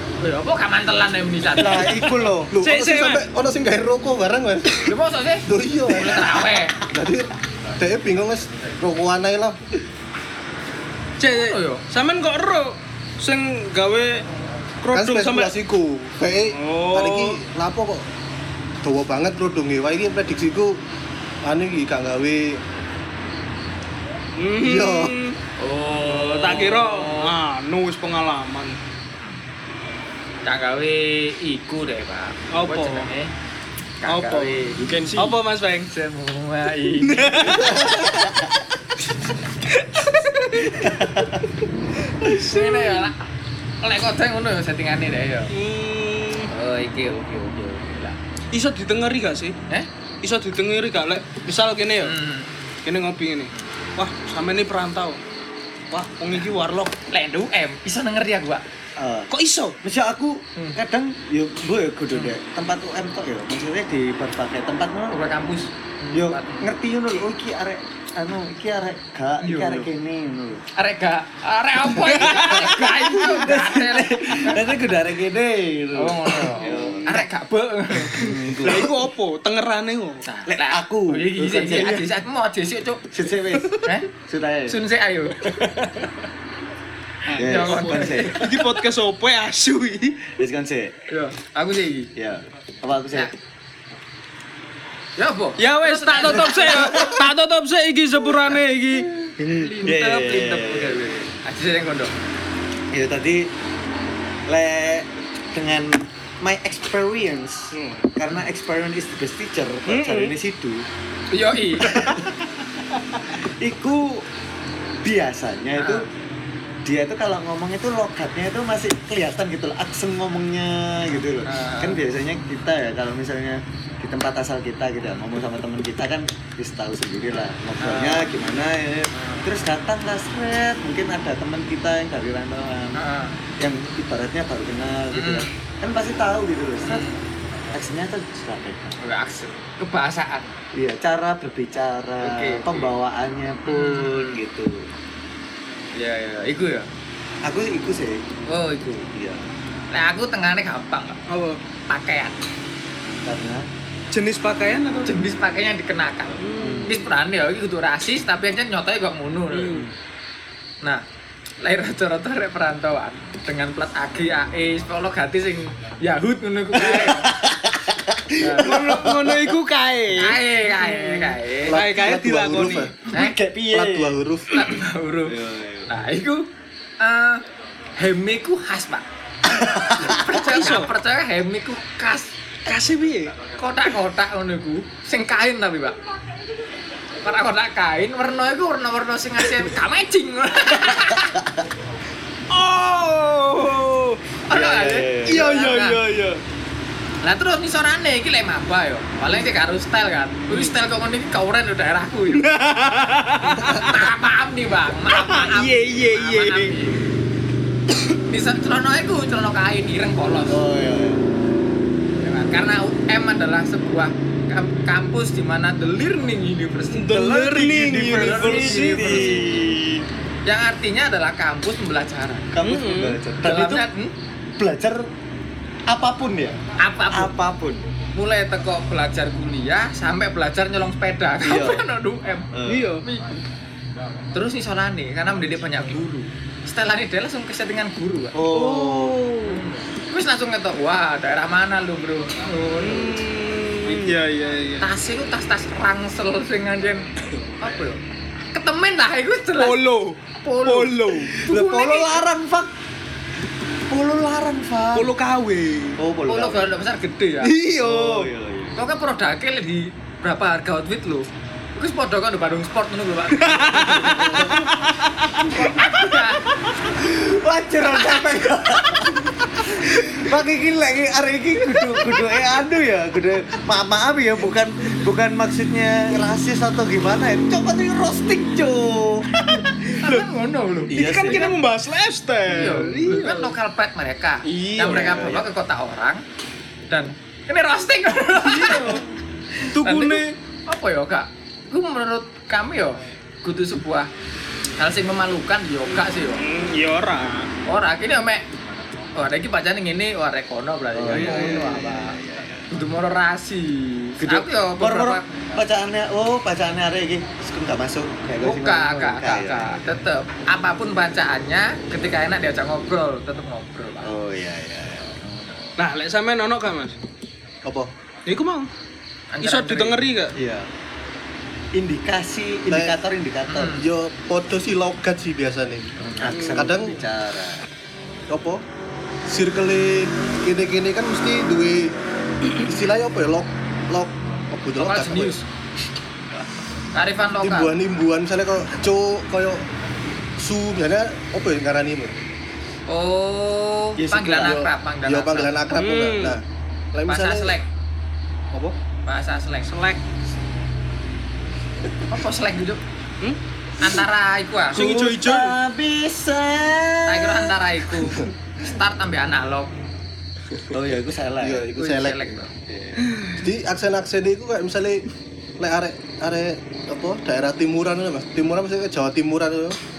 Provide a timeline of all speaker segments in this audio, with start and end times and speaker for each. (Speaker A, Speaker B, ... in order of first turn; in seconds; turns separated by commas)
Speaker A: 0.2-2.0, Speaker B: 1.5-2.5, Speaker C: 2.5-4.9, Speaker D: 2.6-3.2, Speaker A: 4.9-6.8, Speaker C: 5.5-9.6, Speaker D: 11.2-14.2, Speaker A: 11.3-11.8, Speaker D: 14.8-15.5, Speaker C: 14.9-18.1, Speaker D: 16.5-17.4, Speaker C: 18.8-20.8, Speaker C: 21.4-22.6, Speaker D: 24.4-25.4, Speaker C: 24.6-25.2, Speaker A: 25.6-27.3, Speaker D: 26.0-28.8, Speaker A: 30.4-33.3, Speaker D: 32.5-33.1, Speaker A: 34.0-35.4, Speaker D: 34.1-35.9, Speaker A: 35.9-37.9, Speaker D: 37.0-38.1, Speaker B: 37.9-38.3, Speaker D: 39.7-41.1, Speaker B: 40.7-41.4, Speaker D: 42.1-43.1, Speaker A: 42.2-43.2, Speaker A: 43.8-45.5, Speaker D: 45.5-46.5, Speaker A: 46.5-48.2, Speaker D: 48.5-49.6, Speaker D: 50.2-52.1, Speaker A: 52.0-52.5, Speaker D: 52.9-55.2, Speaker D: 55.9-56.9, Speaker A: 57.1-58.6, Speaker B: 59.0-59.3, Speaker D: 59.3-59.8, Speaker B: 59.8-65.2, Speaker A: 65.1-66.7, Speaker B: 66.1-70.6, Speaker A: 69.4-69.9, Speaker A: 70.8-74.8, Speaker D: 72.0-73.0, Speaker B: 72.2-77.3, Speaker A: 76.0-78.3, Speaker B: 78.1-79.0, Speaker D: 78.6-80.2, Speaker A: 80.2-83.1, Speaker B: 80.5-82.1, Speaker B: 83.1-84.8, Speaker A: 83.8-84.1, Speaker A: 84.7-85.7, Speaker D: 87.3-90.3, Speaker B: 87.4-88.6, Speaker A: 87.4-88.4, Speaker B: 90.4-91.0, Speaker A: 91.1-92.1, Speaker B: 92.2-93.3, Speaker A: 95.2-97.0, Speaker D: 95.6-99.1, Speaker B: 96.3-97.2, Speaker B: 99.4-101.1, Speaker A: 99.5-102.1, Speaker B: 102.9-103.5, Speaker B: 104.5-110.9, Speaker D: 107.7-108.1, Speaker D: 109.9-110.4, Speaker A: 111.3-112.0, Speaker B: 111.8-112.3, Speaker D: 111.8-112.2, Speaker B: 113.6-114.3, Speaker B: 115.0-116.1, Speaker A: 115.8-116.0, Speaker B: 116.8-133.0, Speaker A: 121.5-122.0, Speaker A: 127.8-128.3, Speaker A: 129.1-129.5, Speaker A: 132.9-133.4, Speaker B: 133.6-137.1, Speaker A: 135.1-135.5, Speaker A: 136.8-137.2, Speaker B: 137.7-139.0, Speaker A: 139.0-140.5, Speaker B: 140.8-144.9, Speaker A: 142.2-142.9, Speaker A: 143.7-144.4, Speaker A: 146.0-146.9, Speaker B: 147.4-148.2, Speaker A: 148.5-149.1, Speaker B: 149.2-149.5, Speaker A: 149.9-151.2, Speaker D: 151.3-151.6, Speaker A: 151.9-152.3, Speaker B: 153.2-153.7, Speaker D: 154.1-155.1, Speaker A: 155.1-159.8, Speaker D: 156.4-156.9, Speaker B: 156.6-157.0, Speaker D: 159.5-159.9, Speaker A: 161.6-167.3, Speaker B: 166.8-169.6, Speaker A: 168.4-168.9, Speaker D: 168.6-172.9, Speaker A: 170.2-171.8, Speaker C: 171.7-173.0, Speaker B: 173.1-174.2, Speaker A: 173.1-173.4, Speaker C: 173.7-174.7, Speaker A: 174.5-175.4, Speaker B: 175.3-175.9, Speaker A: 175.9-176.4, Speaker A: 177.0-177.4, Speaker A: 178.0-179.1, Speaker B: 179.6-180.2, Speaker A: 179.7-182.3, Speaker D: 180.0-180.9, Speaker D: 182.7-183.3, Speaker A: 183.6-185.9, Speaker A: 187.2-191.4, Speaker D: 192.5-194.2, Speaker A: 194.5-196.0, Speaker B: 194.5-195.4, Speaker D: 195.3-196.4, Speaker A: 197.2-202.5, Speaker D: 200.5-200.8, Speaker D: 202.3-204.1, Speaker A: 203.6-207.2, Speaker D: 205.1-206.8, Speaker A: 208.2-210.6, Speaker B: 210.5-211.3, Speaker A: 212.2-219.4, Speaker D: 216.9-219.5, Speaker B: 217.1-220.1, Speaker A: 220.5-222.5, Speaker B: 222.5-223.9, Speaker D: 222.6-223.2, Speaker A: 223.4-224.1, Speaker B: 224.6-225.1, Speaker B: 225.9-226.6, Speaker A: 226.8-227.3, Speaker B: 227.1-227.8, Speaker A: 228.1-232.5, Speaker B: 231.4-231.9, Speaker B: 232.5-232.9, Speaker D: 232.7-233.1, Speaker A: 233.0-233.4, Speaker A: 234.3-238.4, Speaker B: 238.3-239.5, Speaker D: 238.5-239.4, Speaker A: 239.4-243.2, Speaker D: 242.8-244.9, Speaker A: 244.8-248.0, Speaker A: 248.5-249.8, Speaker D: 249.6-251.4, Speaker A: 250.4-252.2, Speaker B: 251.3-252.7, Speaker B: 253.9-255.1, Speaker D: 254.9-256.0, Speaker B: 256.0-256.7, Speaker A: 256.3-257.5, Speaker D: 257.4-258.3, Speaker B: 257.6-258.8, Speaker A: 258.8-264.6, Speaker D: 263.4-265.5, Speaker B: 263.9-264.8, Speaker A: 265.4-266.6, Speaker B: 266.9-279.3, Speaker A: 279.5-281.6, Speaker D: 279.9-280.3, Speaker B: 280.9-281.6, Speaker D: 280.9-283.5, Speaker A: 282.5-286.2, Speaker D: 284.4-285.2, Speaker B: 284.8-285.5, Speaker A: 286.9-289.0, Speaker D: 288.4-289.0, Speaker D: 289.6-290.3, Speaker A: 289.8-294.1, Speaker A: 294.8-296.4, Speaker D: 296.4-297.5, Speaker A: 297.7-298.5, Speaker A: 299.1-302.2, Speaker B: 300.9-302.7, Speaker D: 301.1-301.5, Speaker A: 302.7-305.3, Speaker B: 304.2-309.8, Speaker A: 308.4-314.2, Speaker B: 314.0-315.5, Speaker D: 315.8-317.0, Speaker C: 317.6-317.9, Speaker D: 318.3-318.7, Speaker A: 319.3-320.0, Speaker D: 319.4-320.4, Speaker B: 320.4-320.7, Speaker B: 321.7-323.8, Speaker C: 322.7-323.0, Speaker A: 323.5-323.9, Speaker C: 323.7-327.0, Speaker B: 326.1-327.6, Speaker D: 326.3-326.8, Speaker C: 328.3-328.6, Speaker C: 329.3-332.0, Speaker C: 332.5-335.4, Speaker A: 334.8-335.4, Speaker A: 336.9-337.8, Speaker C: 337.4-339.7, Speaker C: 340.4-342.2, Speaker A: 342.9-345.7, Speaker B: 344.0-344.7, Speaker C: 345.1-347.6, Speaker D: 345.8-346.4, Speaker A: 347.1-347.6, Speaker A: 349.1-349.7, Speaker D: 349.7-350.0, Speaker A: 352.1-352.8, Speaker A: 353.8-354.8, Speaker D: 354.7-355.6, Speaker B: 354.8-357.6, Speaker A: 357.1-359.7, Speaker B: 360.7-361.7, Speaker C: 361.4-362.4, Speaker A: 361.8-362.5, Speaker B: 362.7-363.1, Speaker C: 363.4-365.1, Speaker C: 365.6-369.8